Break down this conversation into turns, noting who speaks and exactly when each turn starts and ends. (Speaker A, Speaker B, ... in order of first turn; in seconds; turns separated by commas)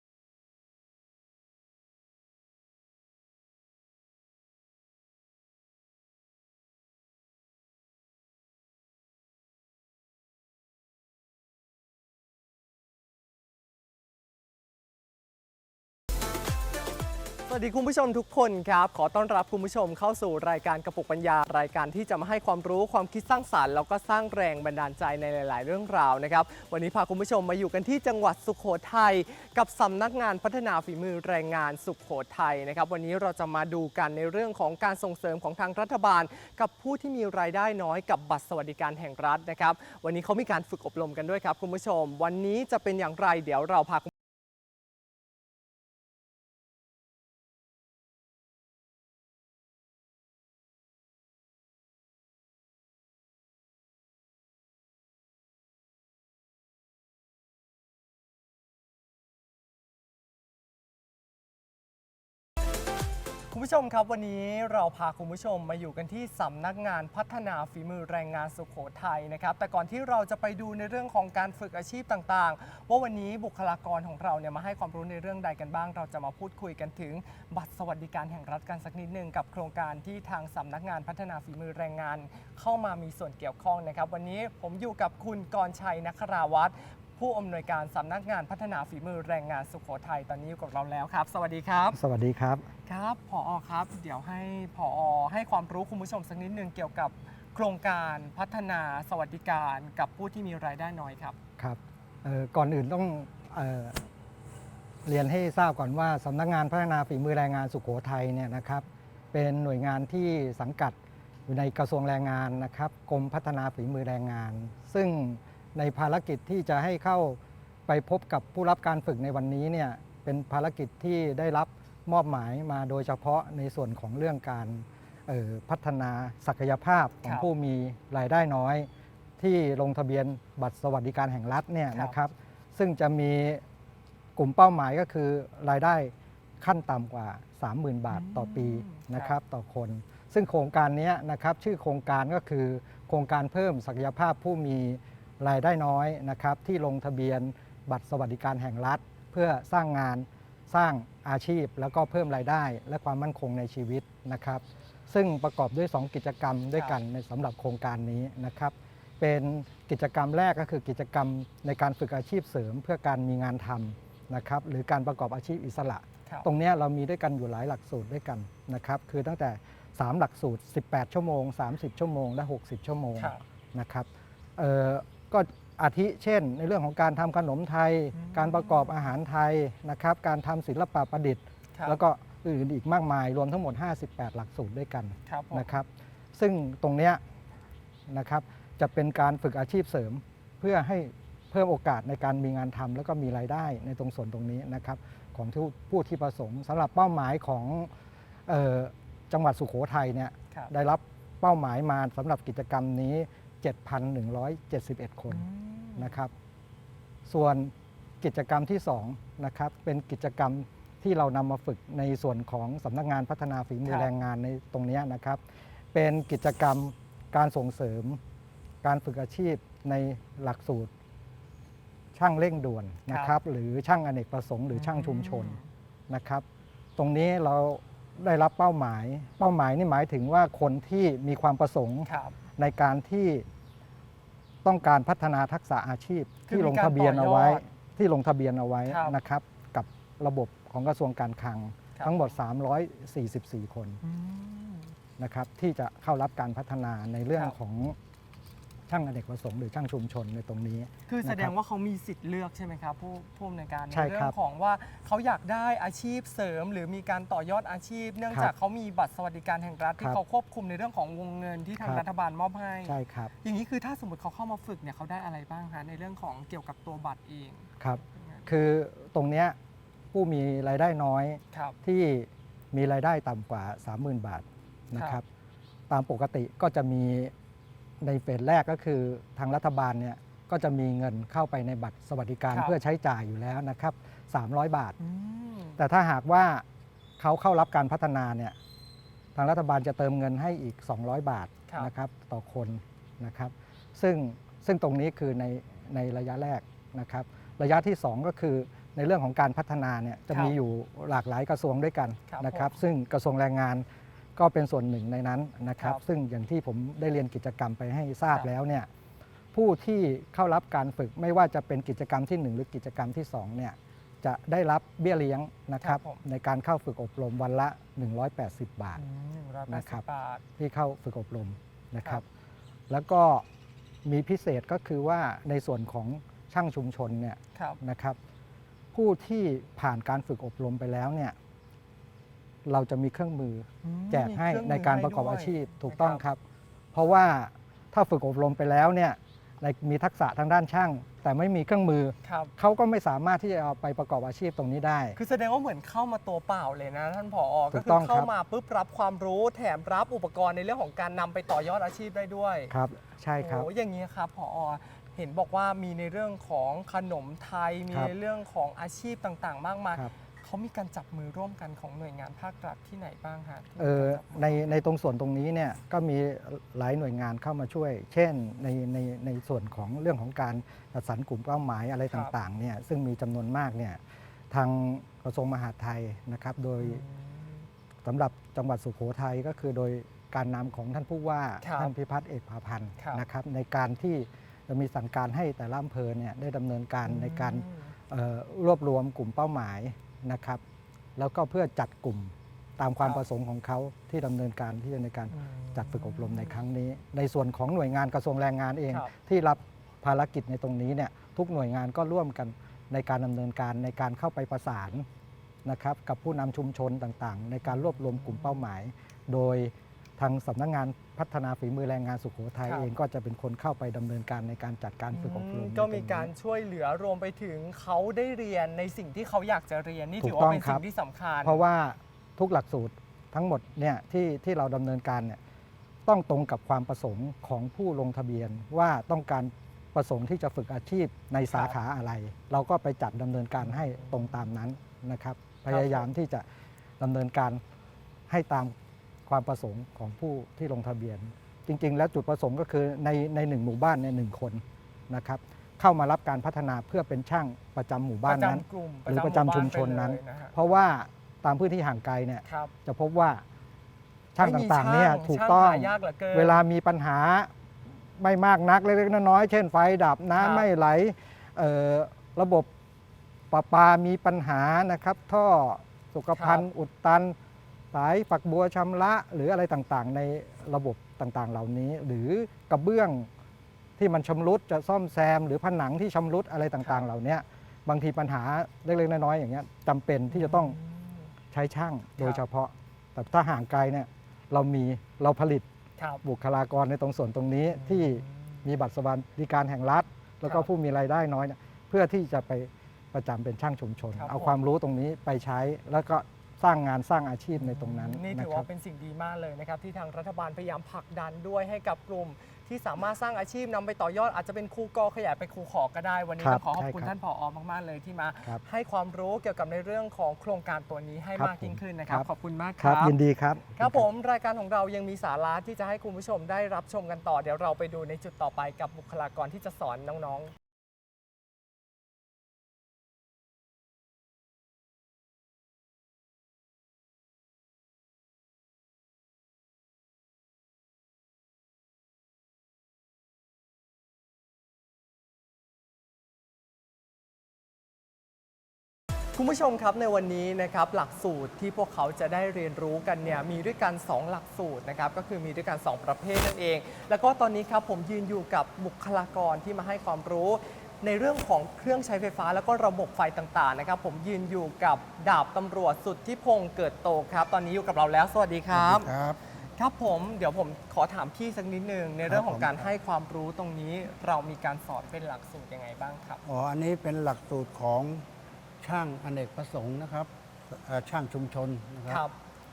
Speaker A: 17.5-44.1, Speaker A: 63.5-92.0, Speaker B: 91.9-92.7, Speaker A: 92.9-101.4, Speaker B: 101.6-104.0, Speaker B: 105.0-128.9, Speaker B: 129.4-133.6, Speaker B: 134.4-187.2, Speaker A: 138.1-139.4, Speaker A: 178.2-179.0, Speaker A: 185.3-185.7, Speaker B: 188.1-197.9, Speaker B: 198.5-205.5, Speaker A: 205.3-206.2, Speaker B: 206.0-206.3, Speaker B: 207.3-215.4, Speaker A: 213.8-214.1, Speaker B: 215.9-218.2, Speaker B: 218.8-220.9, Speaker B: 222.1-225.6, Speaker A: 223.1-223.3, Speaker A: 224.7-225.7, Speaker B: 226.1-226.4, Speaker B: 227.0-233.5, Speaker A: 232.1-232.3, Speaker B: 234.6-244.0, Speaker A: 236.5-237.6, Speaker A: 238.9-239.2, Speaker A: 242.0-242.3, Speaker A: 244.0-244.9, Speaker B: 245.2-248.0, Speaker B: 248.9-251.5, Speaker A: 251.1-268.5, Speaker B: 253.9-254.3, Speaker B: 262.9-263.3, Speaker B: 267.8-269.6, Speaker B: 270.1-275.2, Speaker A: 274.9-275.2, Speaker B: 275.9-277.3, Speaker B: 278.0-285.0, Speaker A: 285.0-285.8, Speaker B: 285.8-286.6, Speaker B: 287.2-288.6, Speaker B: 289.4-303.9, Speaker A: 302.3-302.8, Speaker B: 304.4-308.9, Speaker B: 309.5-319.0, Speaker A: 315.8-316.2, Speaker A: 319.0-320.4, Speaker B: 319.7-320.0, Speaker B: 320.6-322.2, Speaker B: 322.9-323.4, Speaker B: 324.0-328.2, Speaker B: 328.9-331.4, Speaker B: 332.6-336.4, Speaker A: 333.8-336.2, Speaker B: 336.9-345.2, Speaker A: 342.2-342.5, Speaker A: 345.2-352.7, Speaker B: 347.7-348.3, Speaker B: 352.7-353.7, Speaker A: 353.4-364.8, Speaker B: 363.8-377.0, Speaker A: 376.8-377.6, Speaker B: 378.0-390.6, Speaker A: 381.6-381.9, Speaker A: 383.0-383.2, Speaker A: 387.0-387.9, Speaker B: 391.2-405.1, Speaker A: 395.3-396.6, Speaker B: 405.6-416.3, Speaker A: 407.7-408.6, Speaker A: 415.1-421.6, Speaker B: 420.2-420.8, Speaker B: 421.4-425.4, Speaker B: 426.1-436.5, Speaker A: 431.5-431.8, Speaker A: 433.6-434.4, Speaker A: 435.7-436.1, Speaker B: 437.0-437.6, Speaker B: 438.3-438.8, Speaker B: 439.3-453.4, Speaker A: 448.2-450.6, Speaker A: 452.5-452.7, Speaker B: 454.4-457.5, Speaker A: 454.4-456.6, Speaker B: 458.2-462.7, Speaker A: 460.4-460.7, Speaker B: 463.5-467.4, Speaker A: 466.4-466.7, Speaker B: 467.9-473.3, Speaker B: 474.0-480.8, Speaker A: 480.3-481.3, Speaker B: 481.5-485.7, Speaker A: 486.0-486.2, Speaker B: 486.2-498.7, Speaker A: 487.8-488.6, Speaker A: 494.1-494.6, Speaker A: 497.6-513.1, Speaker B: 506.4-507.1, Speaker B: 511.4-512.3, Speaker B: 512.8-514.0, Speaker A: 513.8-520.5, Speaker A: 539.4-559.1, Speaker C: 558.7-559.4, Speaker A: 559.8-566.4, Speaker C: 562.3-562.9, Speaker C: 566.5-568.2, Speaker C: 568.8-572.2, Speaker A: 572.1-572.4